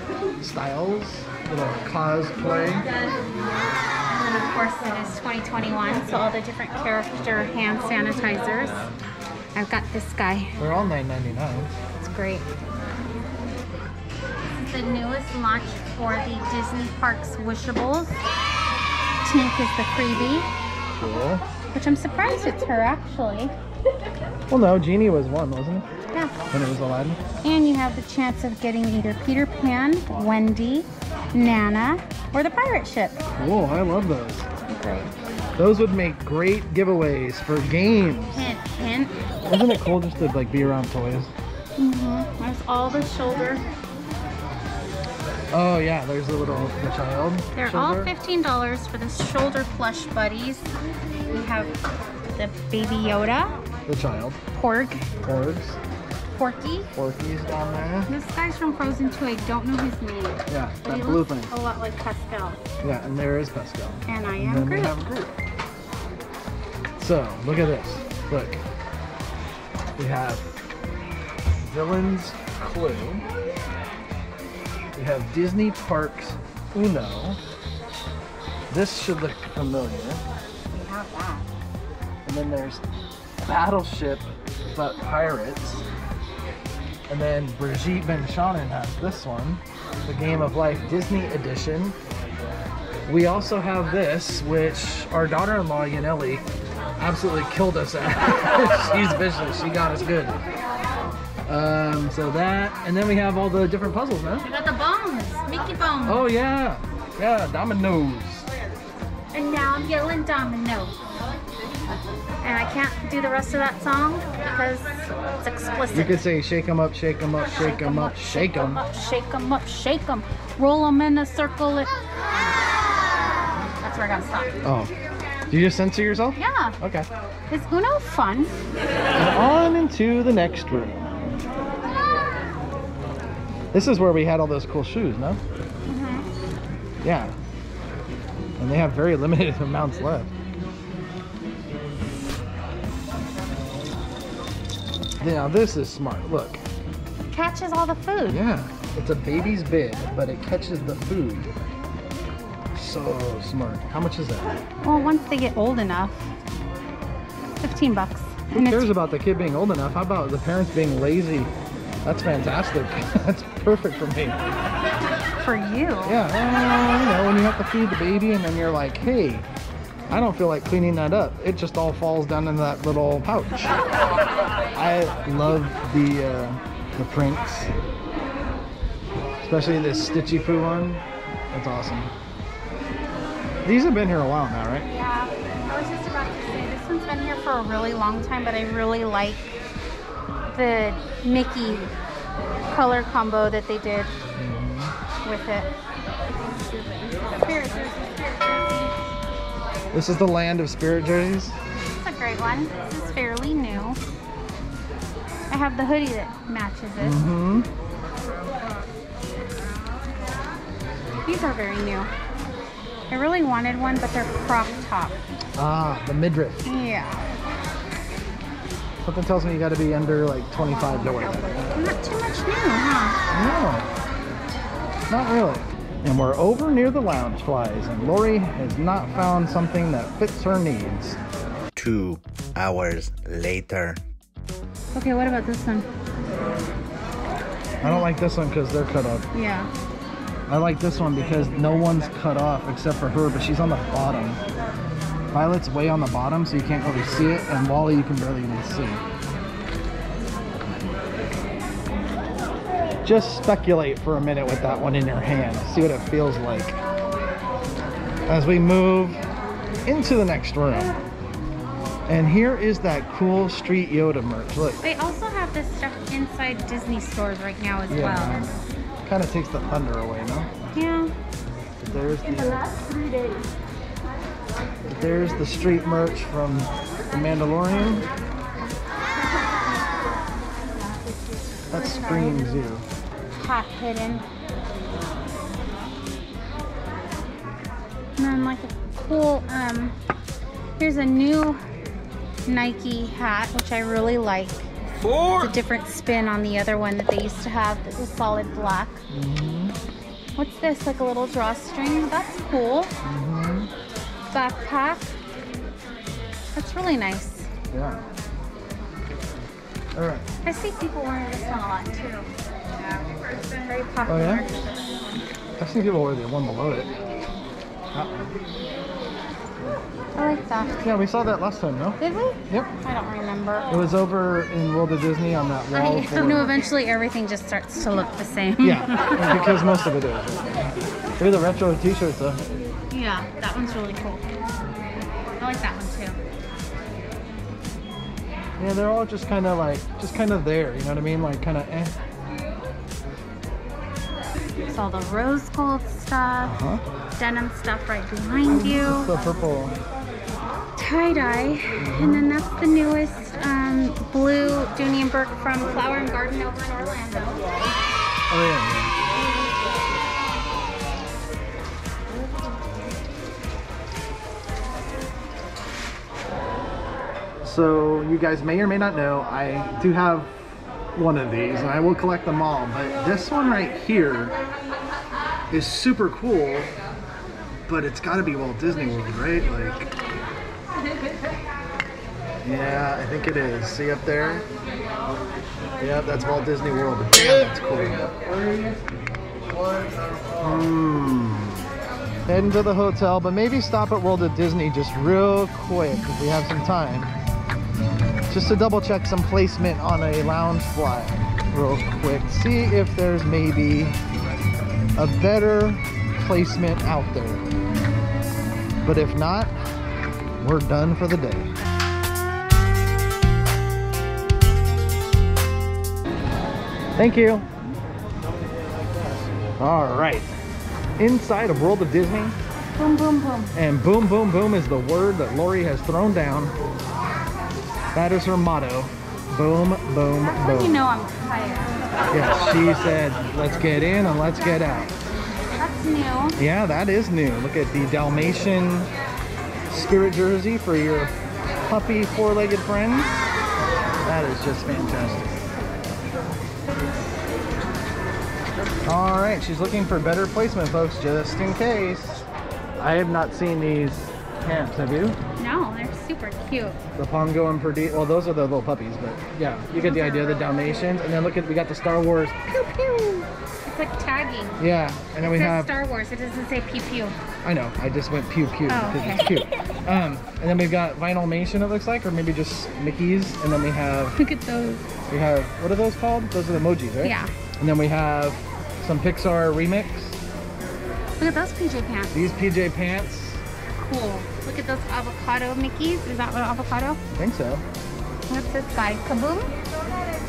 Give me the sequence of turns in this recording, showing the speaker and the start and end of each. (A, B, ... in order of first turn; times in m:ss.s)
0:00.4-0:02.9 A
0:04.2-0:08.9 B
0:09.5-0:10.6 B
0:10.6-0:11.7 A
0:12.0-0:12.5 B
0:14.6-0:18.2 B
0:19.2-0:20.5 B
0:20.9-0:21.4 A
0:21.7-0:23.5 B
0:24.5-0:25.9 A
0:26.5-0:27.2 A
0:27.4-0:33.2 B
0:33.4-0:34.5 A
0:34.7-0:35.1 B
0:35.6-0:38.5 A
0:38.3-0:39.1 B
0:39.5-0:41.3 A
0:41.8-0:43.6 B
0:45.5-0:48.1 A
0:47.5-0:50.7 B
0:51.3-0:51.7 B
0:52.3-0:53.5 B
0:53.8-0:54.4 A
0:54.5-0:55.1 B
0:55.2-0:55.8 A
0:56.3-0:56.9 B
0:56.9-0:58.1 A
0:58.1-1:02.6 B
1:00.5-1:01.5 A
1:02.8-1:05.3 A
1:04.1-1:05.0 B
1:07.0-1:08.6 A
1:10.0-1:10.5 A
1:11.6-1:13.2 A
1:14.9-1:17.4 A
1:18.7-1:20.2 A
1:20.7-1:21.4 B
1:22.2-1:22.8 A
1:23.4-1:25.8 A
1:27.1-1:32.0 A
1:33.0-1:36.4 A
1:37.0-1:40.4 A
1:41.4-1:44.4 A
1:44.4-1:46.3 B
1:46.0-1:48.5 A
1:49.3-1:50.9 B
1:52.4-1:56.2 B
1:55.9-1:58.8 A
1:57.5-2:01.9 B
2:03.8-2:04.5 B
2:04.6-2:04.9 A
2:05.5-2:07.1 A
2:06.4-2:06.8 B
2:07.5-2:08.5 B
2:09.1-2:11.4 A
2:13.7-2:15.4 A
2:15.9-2:16.2 B
2:17.0-2:17.3 A
2:18.6-2:20.3 A
2:25.2-2:26.6 A
2:27.3-2:28.4 B
2:28.3-2:31.5 A
2:32.7-2:34.5 A
2:34.8-2:36.3 B
2:37.6-2:38.9 B
2:38.5-2:41.5 A
2:42.0-2:44.4 A
2:45.4-2:46.2 B
2:46.0-2:49.4 A
2:50.1-2:53.8 A
2:54.7-2:57.7 A
2:59.4-3:02.1 A
3:03.6-3:04.9 A
3:04.8-3:09.6 B
3:10.5-3:11.9 B
3:12.7-3:14.1 B
3:14.4-3:14.9 A
3:15.2-3:15.7 B
3:17.1-3:18.9 B
3:19.9-3:21.5 A
3:21.8-3:24.0 B
3:25.5-3:27.2 B
3:27.0-3:27.7 A
3:31.2-3:32.1 B
3:33.1-3:35.2 B
3:35.6-3:36.6 A
3:36.6-3:37.3 B
3:39.0-3:41.6 A
3:40.6-3:43.2 B
3:43.3-3:43.9 A
3:45.1-3:51.2 A
3:51.8-3:54.0 C
3:54.9-3:55.9 B
3:57.8-3:59.3 A
3:59.3-3:59.7 B
4:00.5-4:04.4 A
4:05.3-4:09.0 A
4:13.0-4:16.8 A
4:18.3-4:19.2 A
4:19.8-4:20.9 A
4:22.1-4:24.8 A
4:24.8-4:28.5 B
4:27.9-4:30.5 A
4:30.7-4:31.1 B
4:31.8-4:32.7 A
4:34.9-4:38.1 A
4:41.7-4:42.8 A
4:41.7-4:42.6 B
4:43.3-4:44.2 B
4:48.2-4:49.9 B
4:50.8-4:51.6 B
4:52.4-4:54.7 B
4:55.0-4:55.4 A
4:55.2-4:59.0 B
4:59.1-4:59.8 A
5:00.4-5:02.9 B
5:03.0-5:03.7 A
5:04.3-5:05.1 B
5:06.5-5:07.5 B
5:07.7-5:08.0 A
5:09.9-5:10.2 A
5:10.4-5:12.3 B
5:13.3-5:15.0 B
5:14.1-5:14.4 A
5:15.6-5:16.9 A
5:17.9-5:18.4 A
5:20.2-5:20.8 B
5:20.8-5:22.7 A
5:22.0-5:23.7 B
5:23.7-5:26.6 A
5:25.7-5:29.5 B
5:28.6-5:30.6 A
5:31.2-5:32.4 A
5:32.9-5:34.2 B
5:35.4-5:36.2 B
5:38.6-5:41.9 A
5:44.7-5:46.6 B
5:46.4-5:46.8 A
5:47.2-5:49.1 B
5:48.6-5:49.8 A
5:50.8-5:57.6 B
5:51.8-5:52.3 A
5:58.3-5:58.9 A
6:07.4-6:14.3 A
6:15.5-6:16.7 A
6:17.7-6:19.9 A
6:22.4-6:24.4 A
6:25.8-6:28.8 A
6:29.5-6:31.7 A
6:32.3-6:37.1 A
6:38.3-6:44.0 A
6:45.0-6:47.4 A
6:48.8-6:49.6 A
6:50.4-6:51.5 A
6:57.0-6:57.5 A
6:59.6-7:00.3 A
7:01.0-7:02.3 A
7:02.8-7:03.5 B
7:03.5-7:06.5 A
7:07.9-7:10.8 A
7:10.2-7:11.7 B
7:12.1-7:14.9 A
7:15.6-7:16.4 B
7:16.4-7:18.9 A
7:19.7-7:21.1 A
7:21.6-7:23.2 A
7:24.0-7:25.4 A
7:28.8-7:32.2 A
7:32.8-7:35.2 A
7:35.4-7:36.8 B
7:37.0-7:43.3 A
7:39.7-7:40.6 B
7:43.6-7:44.6 B
7:44.6-7:45.7 A
7:45.2-7:47.2 B
7:47.4-7:54.2 A
7:48.7-7:49.3 B
7:54.1-7:54.8 B
7:55.1-8:00.2 A
7:57.0-7:57.3 B
8:01.2-8:02.2 B
8:02.1-8:03.4 A
8:03.7-8:07.0 B
8:07.1-8:07.6 A
8:08.3-8:09.5 B